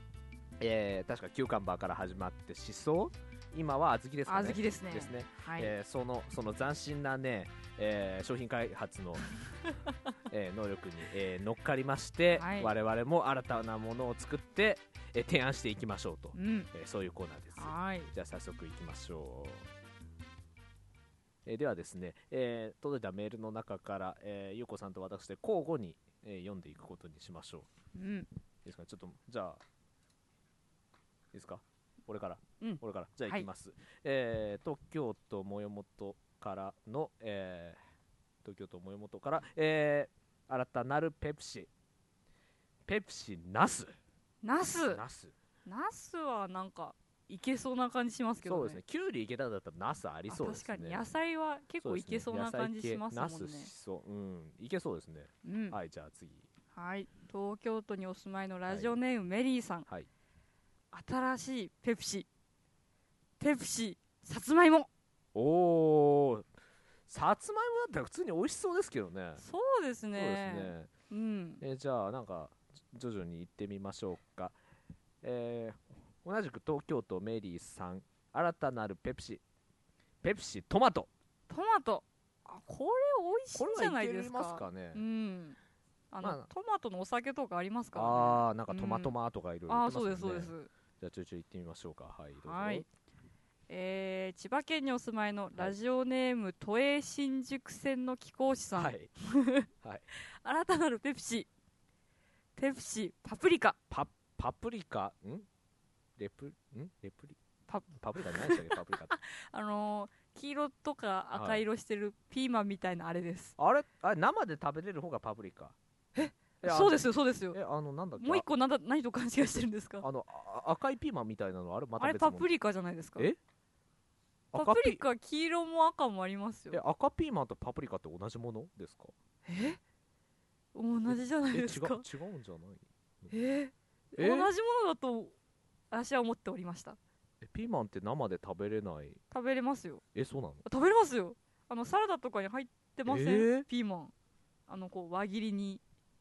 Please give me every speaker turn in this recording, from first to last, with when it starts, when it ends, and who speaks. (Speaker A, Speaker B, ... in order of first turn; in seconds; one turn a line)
Speaker A: 0.6-9.3
Speaker B: 4.3-5.7
Speaker A: 10.3-19.7
Speaker B: 12.3-12.7
Speaker B: 16.3-16.7
Speaker B: 17.6-18.1
Speaker A: 21.4-27.7
Speaker B: 28.0-28.3
Speaker A: 28.6-29.6
Speaker A: 31.3-37.8
Speaker B: 32.6-33.5
Speaker A: 38.4-41.7
Speaker A: 42.9-44.0
Speaker B: 44.4-45.0
Speaker A: 44.9-45.3
Speaker B: 45.7-48.8
Speaker A: 48.5-51.1
Speaker B: 50.3-53.7
Speaker A: 51.8-56.5
Speaker B: 55.4-55.8
Speaker B: 56.7-59.9
Speaker A: 58.7-59.0
Speaker B: 60.9-62.3
Speaker B: 63.4-64.9
Speaker A: 65.3-66.5
Speaker A: 67.1-69.4
Speaker B: 69.4-71.6
Speaker A: 70.2-70.9
Speaker A: 71.6-74.6
Speaker A: 75.2-79.4
Speaker A: 80.2-81.1
Speaker B: 81.5-85.6
Speaker A: 83.5-85.0
Speaker B: 86.1-89.1
Speaker A: 86.2-86.5
Speaker A: 87.9-92.9
Speaker B: 89.7-90.7
Speaker B: 92.4-92.9
Speaker B: 93.7-101.5
Speaker A: 98.8-99.1
Speaker B: 102.6-103.8
Speaker A: 103.9-105.5
Speaker A: 106.2-107.4
Speaker B: 107.7-113.5
Speaker A: 108.0-109.2
Speaker A: 111.3-111.6
Speaker A: 113.6-115.8
Speaker B: 116.2-117.6
Speaker A: 116.6-118.5
Speaker B: 118.2-120.1
Speaker A: 120.0-122.5
Speaker B: 122.0-123.3
Speaker A: 124.5-125.0
Speaker B: 124.5-126.8
Speaker A: 126.7-129.1
Speaker B: 129.4-129.8
Speaker B: 130.7-132.1
Speaker A: 131.1-133.4
Speaker B: 133.3-135.3
Speaker A: 134.2-134.5
Speaker B: 135.9-137.0
Speaker A: 137.4-139.2
Speaker B: 139.3-140.0
Speaker A: 140.2-140.6
Speaker B: 140.7-144.1
Speaker A: 143.1-143.7
Speaker B: 144.7-145.8